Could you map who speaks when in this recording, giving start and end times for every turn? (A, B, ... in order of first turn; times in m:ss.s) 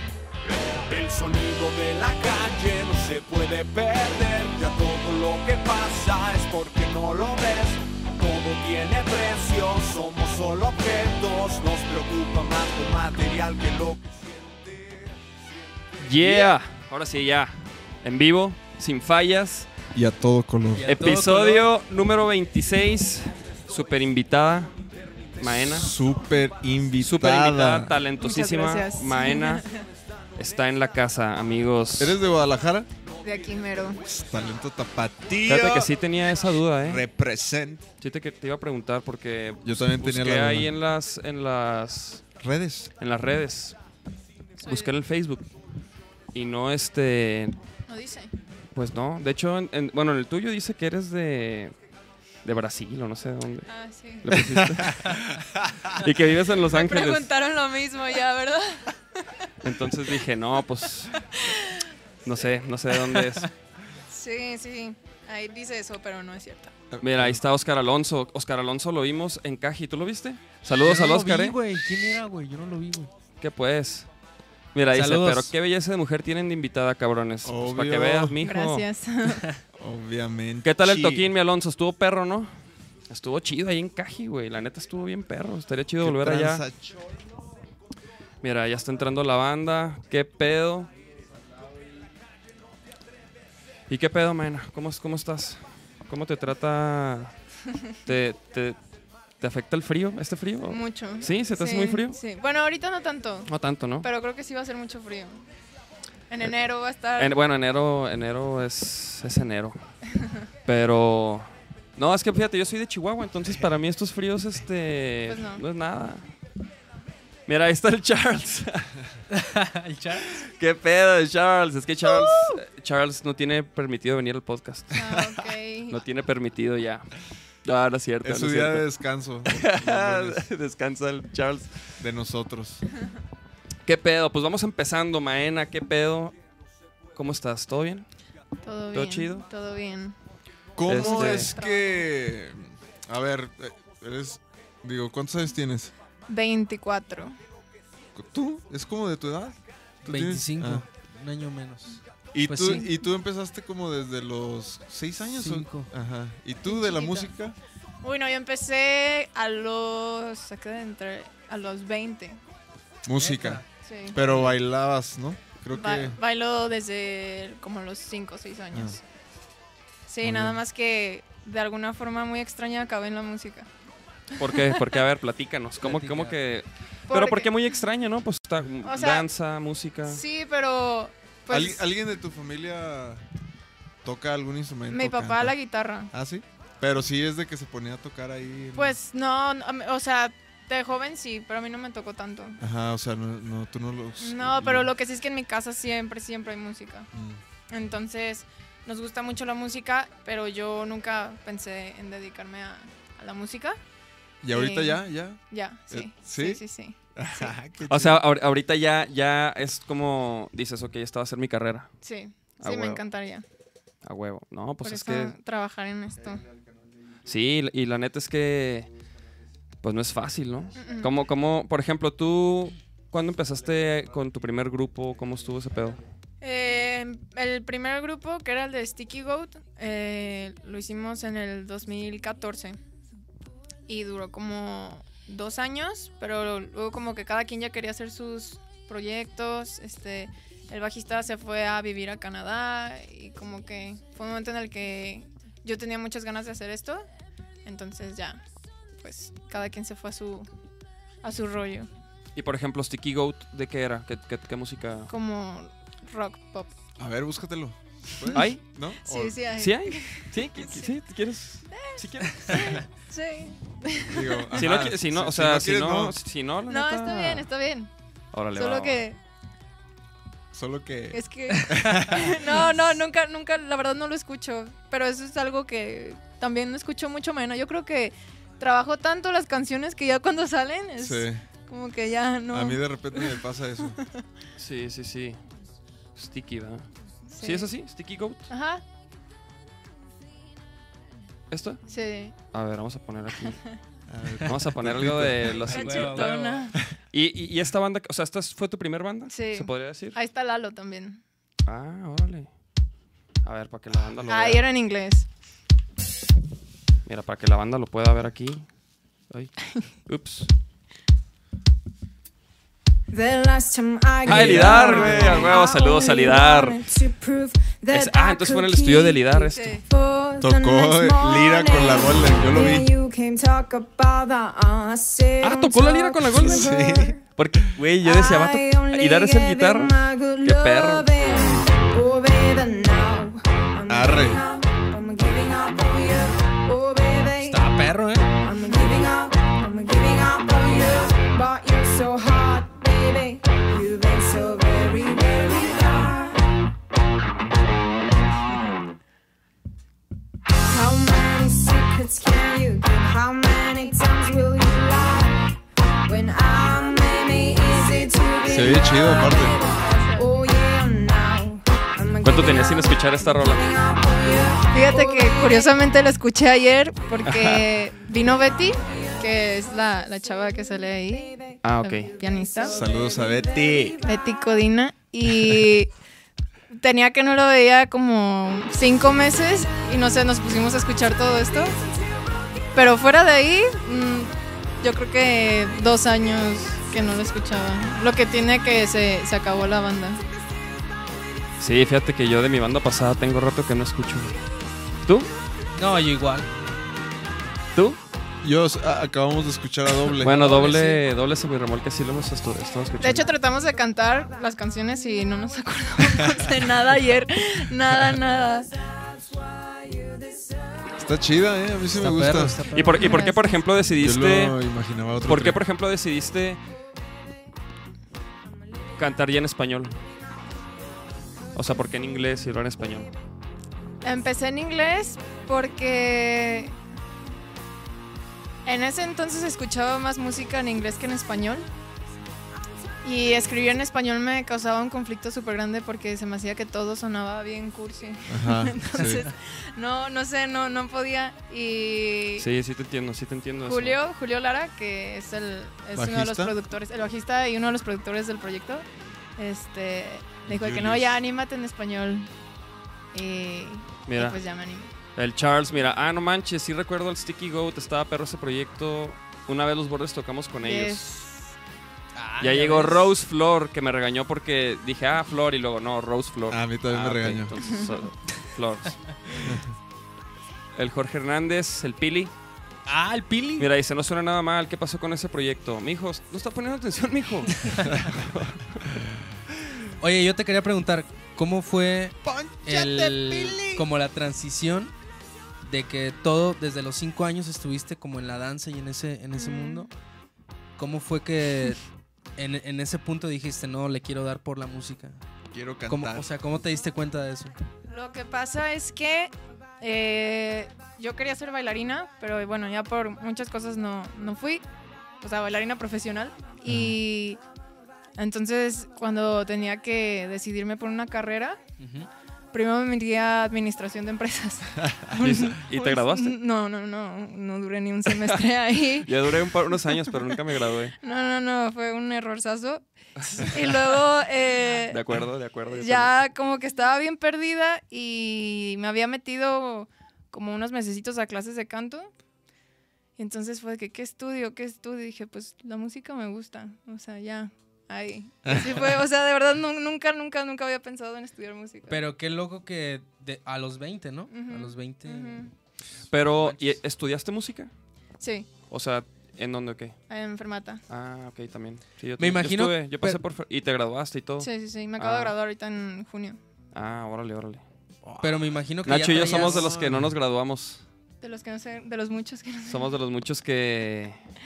0:00.6-0:15.3 A
0:16.0-0:19.7 B
0:16.2-0:16.5 A
0:19.9-0:20.9 C
0:20.8-0:21.7 D
0:20.8-0:24.7 B
0:25.4-0:25.9 B
0:25.4-0:28.0 C
0:27.0-0:29.6 B
0:28.2-0:29.8 E
0:30.4-0:32.2 B
0:32.0-0:32.9 C
0:33.2-0:34.0 E
0:34.0-0:36.0 C
0:35.4-0:37.0 B
0:36.8-0:37.9 C
0:38.0-0:42.2 B
0:39.6-0:40.7 C
0:42.4-0:42.9 C
0:43.0-0:43.8 B
0:44.6-0:45.0 E
0:44.6-0:45.5 B
0:46.3-0:47.6 B
0:47.9-0:48.3 E
0:48.7-0:51.7 B
0:52.4-0:53.7 B
0:53.7-0:54.4 E
0:54.2-0:55.2 B
0:54.4-0:55.4 C
0:55.9-0:57.3 B
0:56.7-0:59.0 E
0:59.6-1:01.2 B
1:01.2-1:01.9 E
1:02.2-1:03.5 B
1:03.0-1:03.5 D
1:04.1-1:06.7 E
1:06.9-1:07.4 C
1:07.0-1:11.6 B
1:10.8-1:13.1 D
1:13.4-1:14.1 B
1:14.7-1:18.9 B
1:14.9-1:15.5 D
1:17.4-1:18.4 C
1:18.4-1:19.4 E
1:19.8-1:21.3 C
1:20.6-1:22.5 B
1:23.1-1:26.6 B
1:26.0-1:27.0 C
1:28.4-1:30.9 B
1:33.9-1:37.3 B
1:38.0-1:38.8 B
1:39.4-1:42.2 B
1:40.7-1:45.4 E
1:43.5-1:44.1 B
1:46.3-1:47.4 E
1:47.2-1:49.8 B
1:50.6-1:56.3 B
1:55.3-1:55.6 E
1:57.5-1:59.0 B
1:59.3-2:00.4 D
2:00.4-2:05.0 B
2:02.1-2:02.6 E
2:04.9-2:06.0 E
2:05.9-2:07.1 B
2:07.6-2:08.9 B
2:08.2-2:10.4 C
2:09.5-2:11.8 B
2:12.0-2:12.8 C
2:13.9-2:16.4 B
2:17.2-2:18.1 B
2:18.6-2:20.2 E
2:18.9-2:19.4 B
2:20.8-2:25.9 C
2:20.9-2:21.5 B
2:20.9-2:22.1 E
2:26.3-2:27.4 E
2:28.2-2:30.9 C
2:30.0-2:32.9 D
2:32.3-2:37.6 C
2:32.7-2:32.9 E
2:35.2-2:35.9 D
2:36.6-2:37.3 E
2:38.0-2:42.4 E
2:43.0-2:46.2 C
2:43.2-2:43.6 D
2:43.8-2:44.2 E
2:44.2-2:44.6 D
2:45.7-2:49.0 E
2:50.1-2:53.7 E
2:50.2-2:50.6 C
2:54.4-3:00.2 B
2:55.8-2:56.4 D
2:57.1-2:57.5 E
2:58.8-2:59.3 E
3:00.1-3:01.9 E
3:01.5-3:03.2 C
3:04.0-3:05.5 C
3:04.9-3:06.1 E
3:06.1-3:09.0 C
3:08.8-3:12.6 E
3:12.6-3:14.9 C
3:14.2-3:17.1 E
3:17.1-3:17.4 C
3:17.7-3:23.8 E
3:24.4-3:26.6 C
3:24.5-3:27.5 E
3:27.2-3:28.2 C
3:27.9-3:31.9 B
3:32.0-3:33.4 E
3:32.6-3:33.0 B
3:34.0-3:35.4 B
3:34.8-3:36.5 E
3:37.2-3:38.9 B
3:39.8-3:46.0 B
3:40.8-3:41.2 E
3:46.4-3:52.8 E
3:53.9-4:07.1 E
4:07.6-4:08.4 E
4:09.0-4:10.5 E
4:11.2-4:11.9 E
4:12.4-4:15.1 B
4:15.1-4:16.7 E
4:17.0-4:19.4 C
4:18.2-4:21.0 E
4:18.3-4:18.6 B
4:19.6-4:22.8 B
4:21.7-4:24.5 E
4:24.0-4:26.2 C
4:24.6-4:27.5 B
4:26.7-4:27.9 E
4:28.3-4:29.0 B
4:28.6-4:29.2 E
4:30.5-4:32.6 C
4:31.1-4:43.4 E
4:41.0-4:41.4 C
4:42.5-4:44.0 C
4:44.6-4:45.4 B
4:46.2-4:46.9 B
4:47.3-4:47.7 E
4:47.4-4:48.5 B
4:48.5-4:48.8 E
4:51.5-4:51.8 B
4:51.9-4:52.4 E
4:52.5-4:53.6 B
4:53.4-4:53.8 E
4:54.1-4:55.7 C
4:54.4-4:56.4 B
4:55.6-4:56.8 E
4:55.7-4:56.7 D
4:57.1-5:00.2 B
4:59.3-5:01.2 E
5:01.6-5:02.5 B
5:03.4-5:04.6 B
5:04.0-5:04.5 C
5:04.3-5:05.3 E
5:07.1-5:08.6 B
5:10.1-5:10.5 B
5:13.1-5:27.2 F
5:14.2-5:16.9 B
5:14.3-5:14.7 D
5:14.3-5:15.6 C
5:17.9-5:19.8 B
5:19.4-5:19.9 E
5:20.4-5:23.0 C
5:25.4-5:26.8 B
5:26.4-5:27.2 C
5:27.4-5:31.1 B
5:28.0-5:37.7 F
5:33.9-5:34.4 C
5:37.4-5:38.3 D
5:38.4-5:46.5 F
5:50.7-5:55.5 F
5:56.0-5:59.6 F
5:58.5-5:59.6 C
5:58.6-6:00.4 E
6:00.2-6:05.8 F
6:02.2-6:03.8 B
6:04.7-6:12.8 E
6:07.2-6:07.6 B
6:11.6-6:12.2 B
6:12.2-6:14.0 F
6:12.7-6:14.0 C
6:14.0-6:15.9 E
6:16.7-6:21.8 E
6:22.8-6:30.2 E
6:31.6-6:34.4 B
6:35.0-6:35.3 B
6:35.8-6:36.5 D
6:38.4-6:40.4 C
6:40.2-6:43.3 B
6:40.2-6:41.0 D
6:43.0-6:48.7 E
6:49.2-6:50.7 F
6:51.0-6:52.7 C
6:51.9-6:53.2 D
6:52.7-6:54.6 B
6:53.0-6:53.6 E
6:54.0-6:55.6 C
6:55.2-6:56.6 B
6:59.0-7:00.0 B
7:01.5-7:03.1 B
7:04.0-7:06.8 E
7:08.6-7:11.7 E
7:13.0-7:22.5 E
7:18.3-7:19.3 C
7:22.4-7:24.0 B
7:23.7-7:28.9 E
7:26.0-7:26.6 C
7:29.4-7:32.3 E
7:30.5-7:31.2 C
7:33.1-7:34.9 E
7:34.1-7:34.4 B
7:35.2-7:41.1 B
7:40.6-7:41.6 E
7:42.2-7:43.1 D
7:42.4-7:49.0 B
7:46.5-7:47.6 C
7:47.6-7:47.9 E
7:49.3-7:49.6 D
7:49.4-7:49.7 C
7:50.8-7:52.3 B
7:52.9-7:53.7 D
7:53.6-7:58.9 B
7:58.0-7:58.2 C
7:58.9-7:59.2 C
8:00.0-8:04.9 D
8:02.2-8:03.9 C
8:05.6-8:09.9 D
8:09.3-8:09.9 E
8:10.8-8:11.8 D
8:12.4-8:15.2 D
8:15.5-8:16.3 C
8:15.9-8:17.6 D
8:17.9-8:24.6 E
8:25.2-8:27.4 E
8:26.7-8:27.0 C
8:28.2-8:31.6 E
8:31.8-8:32.1 D
8:32.5-8:39.1 E
8:34.8-8:35.1 C
8:35.2-8:36.4 B
8:39.0-8:41.0 B
8:41.0-8:42.8 E
8:43.2-8:43.6 B
8:43.4-8:45.0 E
8:44.9-8:46.1 B
8:45.7-8:52.1 E
8:53.2-9:02.0 E
8:58.4-8:59.0 C
9:01.9-9:05.5 D
9:04.3-9:05.5 E
9:06.1-9:07.7 B
9:08.2-9:08.5 E
9:08.7-9:10.0 B
9:10.1-9:10.8 E
9:10.9-9:15.4 B
9:12.2-9:13.2 D
9:14.4-9:16.4 E
9:16.7-9:17.6 B
9:18.0-9:20.1 C
9:18.2-9:19.8 D
9:18.8-9:20.8 B
9:21.2-9:22.9 E
9:22.7-9:24.2 B